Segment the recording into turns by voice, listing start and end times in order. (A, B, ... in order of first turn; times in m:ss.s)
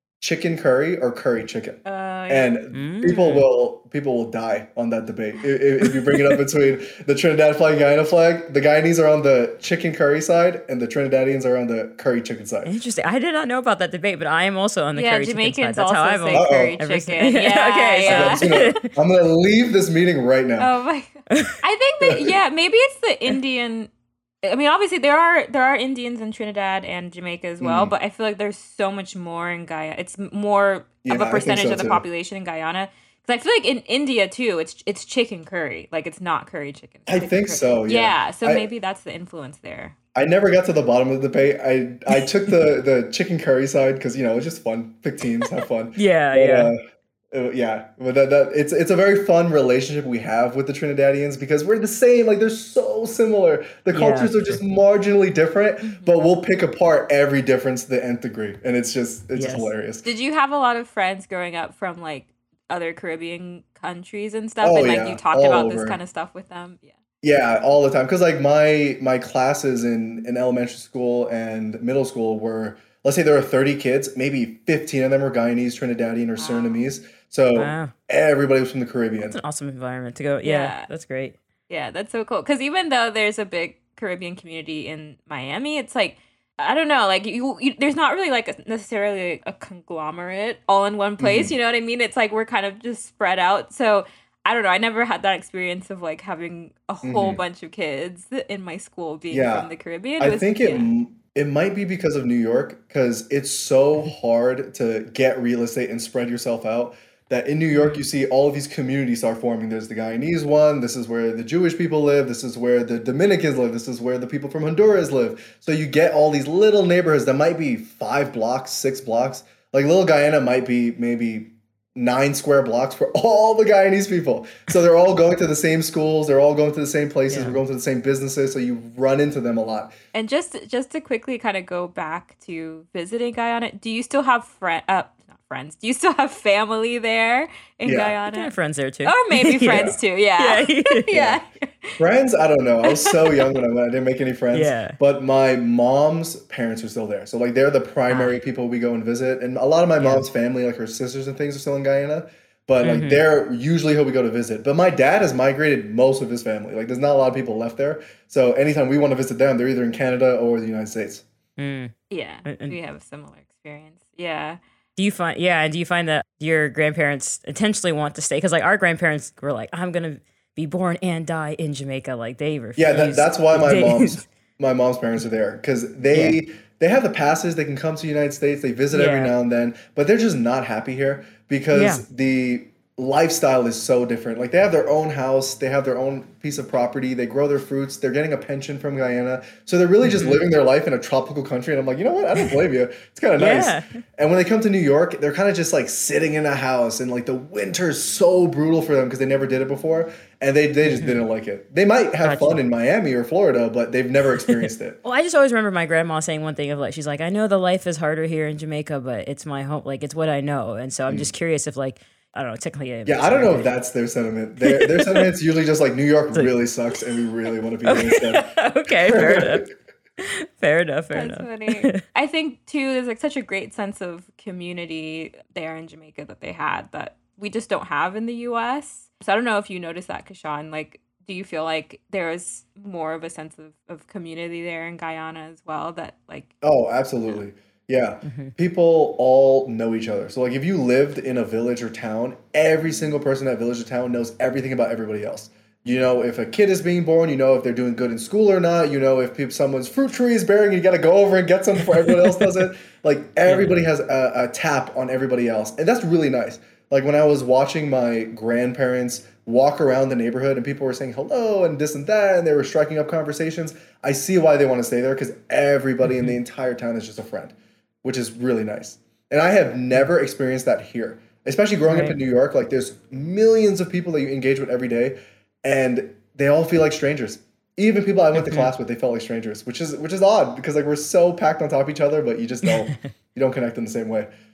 0:00.2-0:12.7 A
0:01.8-0:02.5 B
0:02.7-0:03.5 C
0:12.7-0:18.9 C
0:15.0-0:18.8 B
0:16.3-0:16.8 A
0:18.0-0:20.7 A
0:20.6-0:23.9 B
0:22.0-0:22.4 A
0:24.4-0:40.0 B
0:27.6-0:27.9 A
0:31.0-0:32.0 A
0:37.1-0:38.6 A
0:40.2-0:46.8 A
0:46.0-0:46.7 C
0:47.3-1:00.0 A
0:53.9-0:54.6 C
0:55.8-0:56.1 B
0:59.4-0:59.7 C
1:00.0-1:07.0 B
1:04.6-1:06.0 A
1:07.2-1:19.4 A
1:16.4-1:16.8 B
1:17.6-1:17.9 C
1:19.2-1:21.4 C
1:20.4-1:20.9 B
1:21.7-1:40.9 B
1:31.2-1:31.6 A
1:37.0-1:37.4 A
1:39.3-1:39.7 A
1:40.2-2:09.9 A
2:07.3-2:07.6 C
2:10.1-2:18.5 B
2:17.8-2:18.2 A
2:18.3-2:21.1 C
2:19.0-2:22.0 B
2:19.7-2:20.0 A
2:21.1-2:21.4 A
2:22.0-2:41.2 A
2:24.5-2:25.0 C
2:28.1-2:28.4 C
2:30.0-2:30.2 C
2:32.8-2:33.2 C
2:41.6-2:41.9 C
2:42.1-2:44.6 B
2:42.4-2:42.8 C
2:45.0-2:54.2 C
2:52.8-3:25.0 A
2:56.1-2:56.4 C
2:58.9-2:59.3 C
3:01.7-3:02.0 C
3:10.0-3:10.4 C
3:13.4-3:13.8 C
3:20.9-3:21.2 C
3:22.2-3:22.6 C
3:24.4-3:33.7 C
3:33.1-3:38.5 A
3:34.6-3:35.3 C
3:37.8-3:39.7 C
3:39.1-3:39.6 A
3:40.2-3:42.0 C
3:41.1-3:56.5 B
3:56.6-4:44.3 A
3:58.2-3:58.5 C
4:13.5-4:13.8 C
4:31.9-4:32.2 C
4:38.4-4:38.7 C